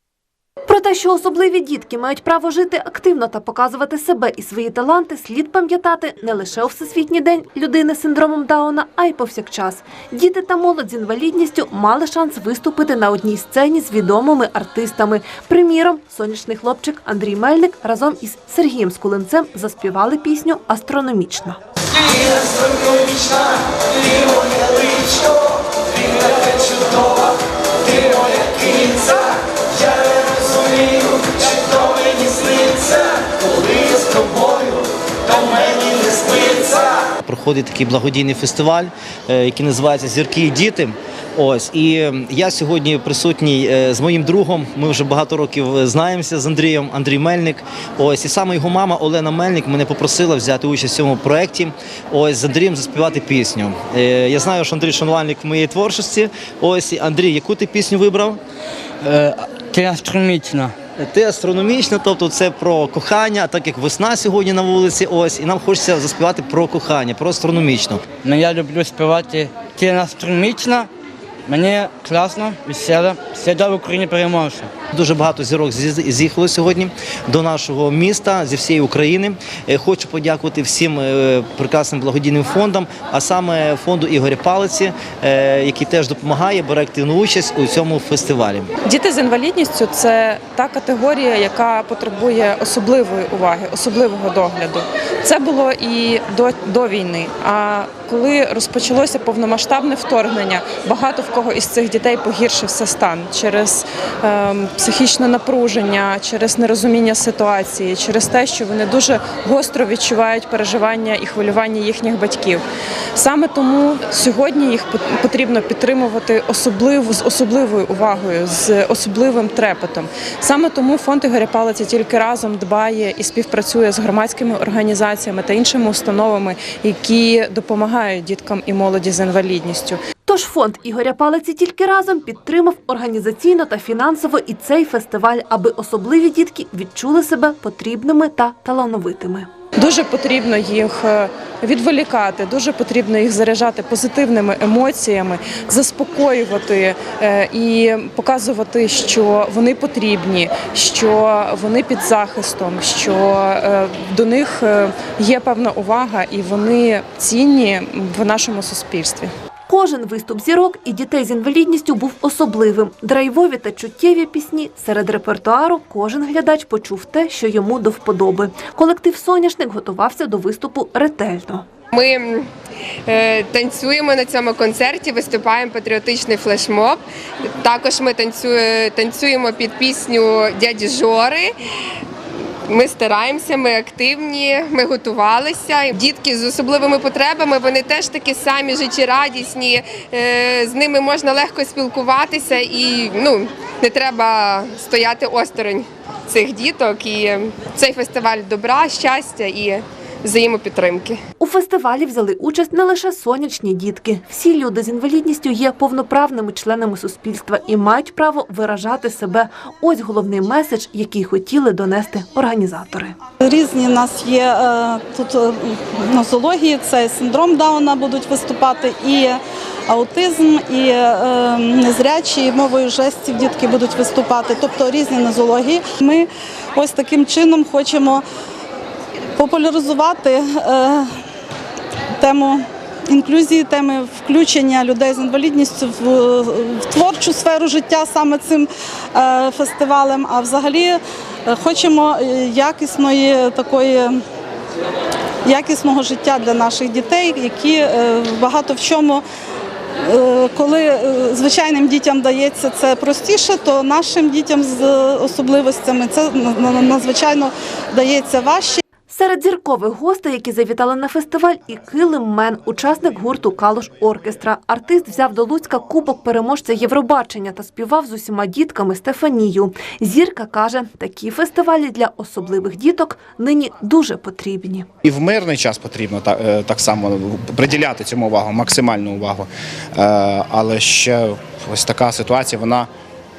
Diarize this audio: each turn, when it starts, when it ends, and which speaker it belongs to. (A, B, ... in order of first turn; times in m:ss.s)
0:00.6-0:21.6 A
0:36.3-0:58.4 B
0:59.0-1:00.7 C
1:01.0-1:08.0 B
1:08.2-1:10.9 C
1:11.5-1:14.7 C
1:14.9-1:28.7 B
1:28.8-1:52.6 D
1:53.2-2:10.0 D
2:10.2-2:19.5 A
2:19.8-2:39.3 D
2:39.7-2:51.6 A
2:51.9-2:52.5 E
2:53.1-2:57.0 E
2:57.6-3:01.5 E
3:02.7-3:21.2 E
3:21.4-3:33.1 A
3:33.5-3:39.3 F
3:39.9-3:46.2 F
3:46.8-3:48.2 F
3:49.4-3:51.0 F
3:52.2-3:52.6 F
3:53.1-3:58.6 F
3:59.2-4:01.0 F
4:01.5-4:04.1 F
4:05.5-4:09.2 F
4:10.1-4:18.7 F
4:19.1-4:34.9 A
4:35.0-4:42.9 G